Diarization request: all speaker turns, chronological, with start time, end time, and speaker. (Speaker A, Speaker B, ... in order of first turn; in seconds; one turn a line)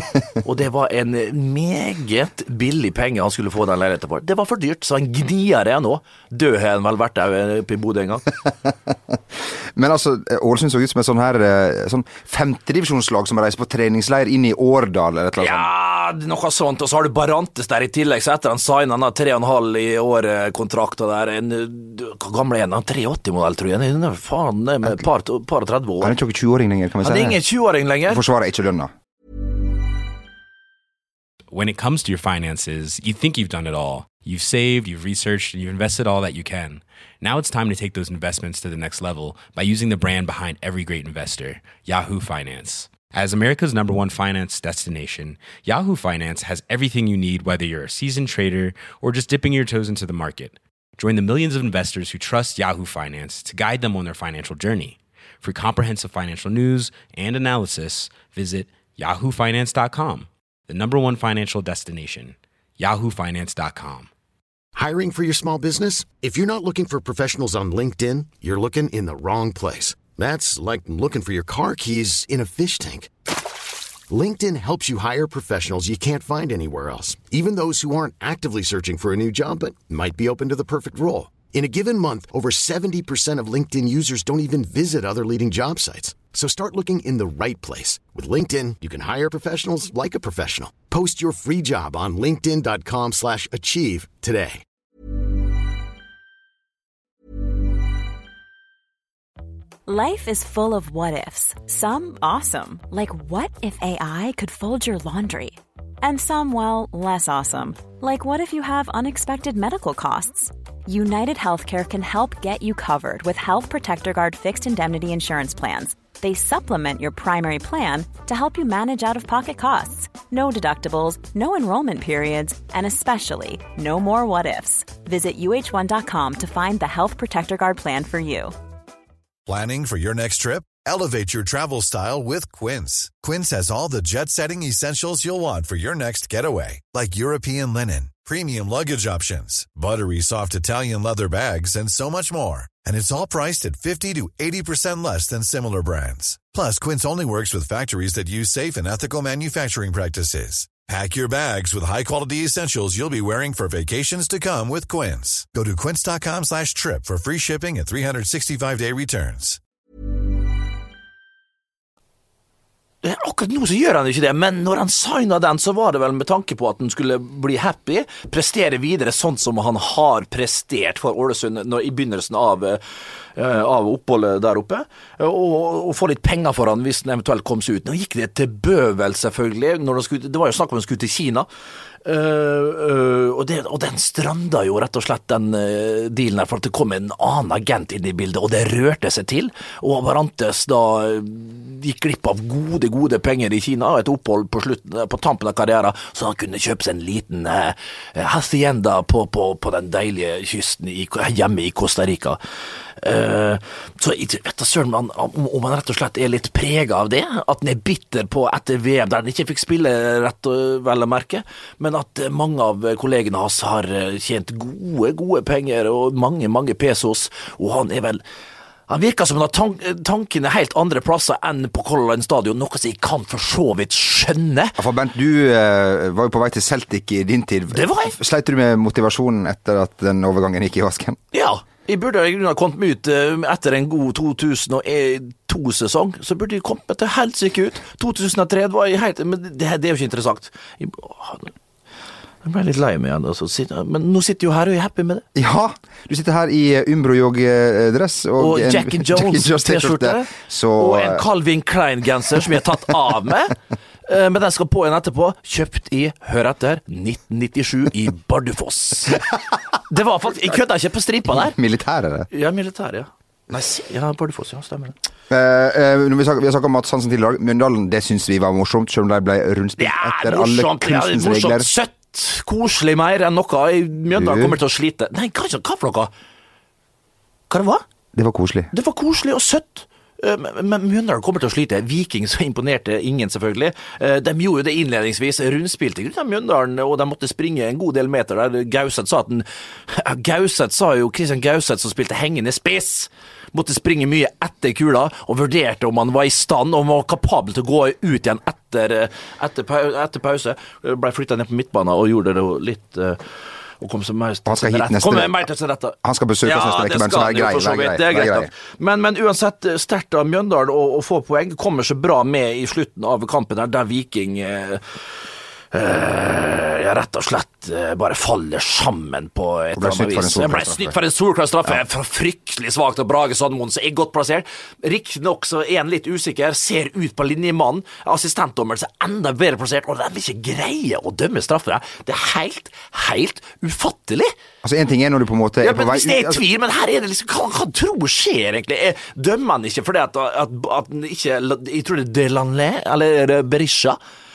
Speaker A: 0.4-8.3
Speaker B: 9.7-15.7
Speaker A: 15.4-26.1
Speaker B: 26.0-27.4
Speaker A: 27.0-28.2
Speaker B: 28.1-28.9
Speaker C: 31.5-64.1
Speaker D: 64.7-73.1
Speaker D: 74.1-94.6
Speaker E: 99.8-128.5
Speaker F: 129.4-159.6
Speaker A: 163.0-172.8
Speaker A: 173.3-181.5
Speaker A: 182.0-202.4
Speaker A: 203.0-218.2
Speaker A: 218.9-224.8
Speaker B: 224.8-231.2
Speaker A: 227.7-228.2
Speaker A: 231.3-241.5
Speaker A: 242.4-245.2
Speaker B: 245.3-251.2
Speaker A: 248.4-259.3
Speaker A: 259.9-261.6
Speaker B: 261.3-262.3
Speaker A: 262.3-264.9
Speaker B: 265.3-271.7
Speaker A: 269.8-276.1
Speaker B: 274.1-274.6
Speaker A: 277.5-277.8
Speaker B: 278.1-278.7
Speaker A: 278.7-303.2
Speaker A: 303.8-314.9
Speaker B: 304.4-305.5
Speaker B: 306.0-308.5
Speaker A: 315.7-334.3
Speaker B: 319.8-321.0
Speaker B: 334.6-336.4
Speaker A: 335.6-344.0